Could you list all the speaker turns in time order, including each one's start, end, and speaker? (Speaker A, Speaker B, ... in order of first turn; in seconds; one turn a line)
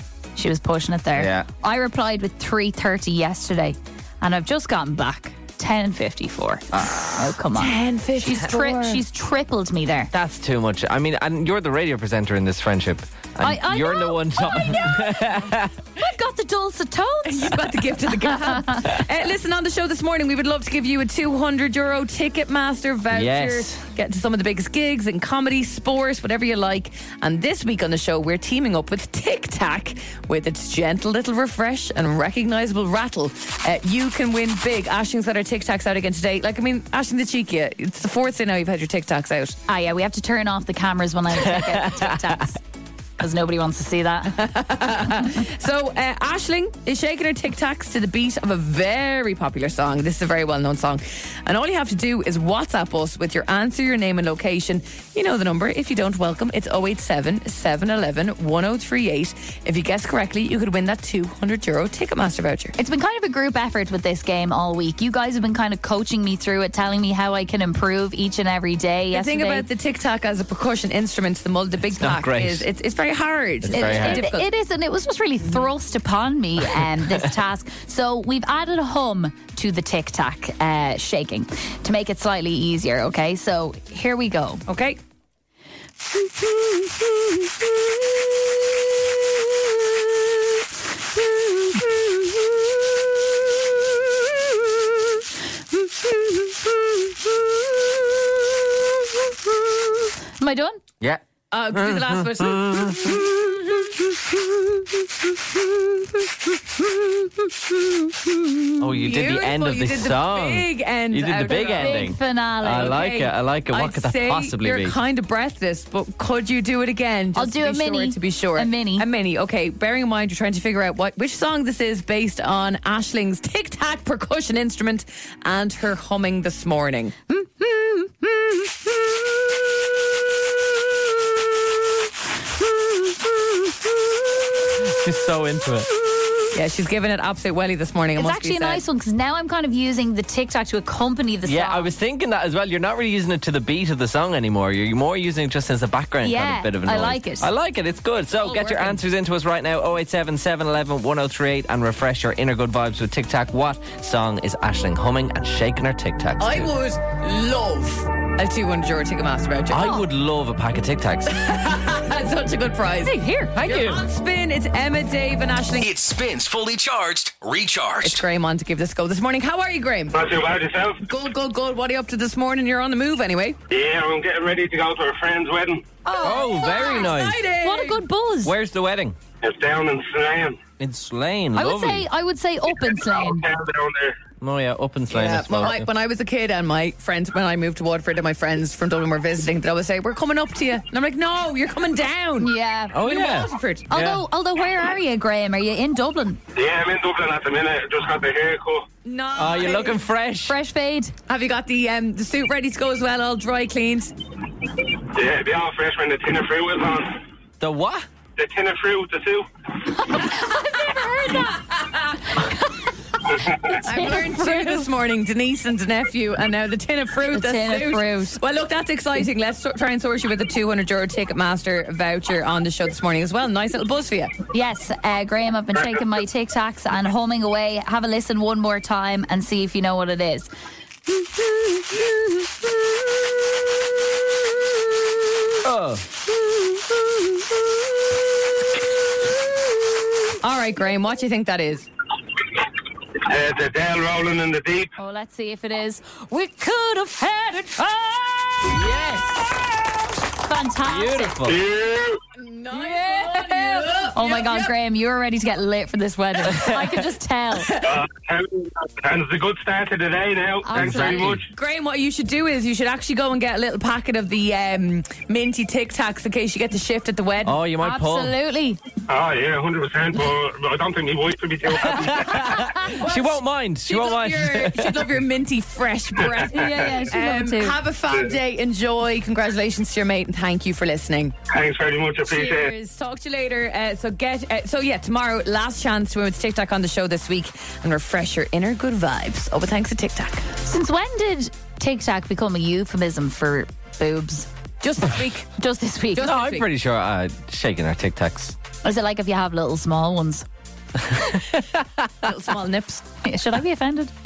Speaker A: 0.4-10.1
Speaker B: 1.1-1.5
Speaker B: 6.7-7.3
Speaker C: 7.5-9.0
Speaker B: 10.1-15.7
Speaker A: 13.4-15.4
Speaker A: 16.0-17.6
Speaker C: 17.2-39.6
Speaker A: 18.3-18.8
Speaker B: 23.1-23.8
Speaker A: 39.7-42.6
Speaker B: 41.3-42.5
Speaker A: 43.2-44.4
Speaker C: 44.3-62.8
Speaker A: 62.8-69.7
Speaker C: 69.1-74.5
Speaker B: 72.0-72.7
Speaker B: 73.6-74.2
Speaker A: 73.7-84.6
Speaker C: 84.7-85.0
Speaker A: 100.4-100.8
Speaker B: 101.0-104.2
Speaker C: 101.5-103.2
Speaker B: 108.8-115.0
Speaker C: 108.9-112.1
Speaker A: 111.8-113.0
Speaker C: 112.8-127.3
Speaker A: 117.4-119.1
Speaker A: 127.3-128.7
Speaker B: 134.7-135.9
Speaker C: 136.5-138.8
Speaker A: 138.2-141.9
Speaker B: 141.4-156.7
Speaker A: 146.2-147.5
Speaker C: 148.3-149.0
Speaker C: 156.4-160.0
Speaker B: 159.7-161.4
Speaker C: 161.3-165.9
Speaker A: 163.1-163.9
Speaker B: 163.6-164.0
Speaker D: 165.8-168.2
Speaker C: 168.0-170.2
Speaker E: 170.1-171.0
Speaker C: 171.1-173.6
Speaker E: 173.7-176.0
Speaker A: 176.1-178.5
Speaker C: 176.1-178.0
Speaker B: 176.2-177.4
Speaker B: 178.4-179.2
Speaker E: 179.4-180.6
Speaker B: 180.8-182.1
Speaker A: 181.6-183.5
Speaker E: 183.0-184.2
Speaker B: 184.4-185.9
Speaker C: 185.1-193.9
Speaker A: 192.4-193.0
Speaker B: 192.9-194.2
Speaker A: 193.9-196.4
Speaker E: 196.6-198.9
Speaker C: 199.1-200.0
Speaker B: 199.4-200.6
Speaker A: 200.5-201.2
Speaker C: 201.3-204.1
Speaker E: 205.1-207.2
Speaker B: 207.6-208.1
Speaker E: 208.4-209.5
Speaker A: 209.9-211.7
Speaker C: 211.8-212.1
Speaker A: 212.2-214.9
Speaker C: 213.6-224.3
Speaker A: 217.3-218.4
Speaker A: 224.5-230.5
Speaker A: 231.1-231.8
Speaker B: 235.6-236.1
Speaker C: 240.4-241.9
Speaker E: 243.3-244.9
Speaker A: 245.0-248.8
Speaker B: 248.7-249.7
Speaker A: 250.4-251.4
Speaker B: 250.9-251.6
Speaker E: 251.4-252.2
Speaker C: 252.4-254.7
Speaker A: 252.7-257.7
Speaker B: 256.5-256.9
Speaker E: 257.8-261.5
Speaker A: 260.6-261.4
Speaker B: 260.7-261.4
Speaker C: 261.5-267.6
Speaker B: 267.4-268.3
Speaker A: 267.8-268.8
Speaker E: 269.1-272.6
Speaker B: 271.7-275.1
Speaker C: 272.8-281.4
Speaker E: 276.2-276.9
Speaker A: 276.5-277.8
Speaker E: 281.5-282.7
Speaker C: 282.2-290.4
Speaker A: 290.6-294.5
Speaker C: 294.8-295.5
Speaker A: 295.6-296.3
Speaker C: 296.1-296.7
Speaker B: 296.2-298.6
Speaker A: 298.8-300.5
Speaker C: 302.2-303.0
Speaker A: 303.2-304.1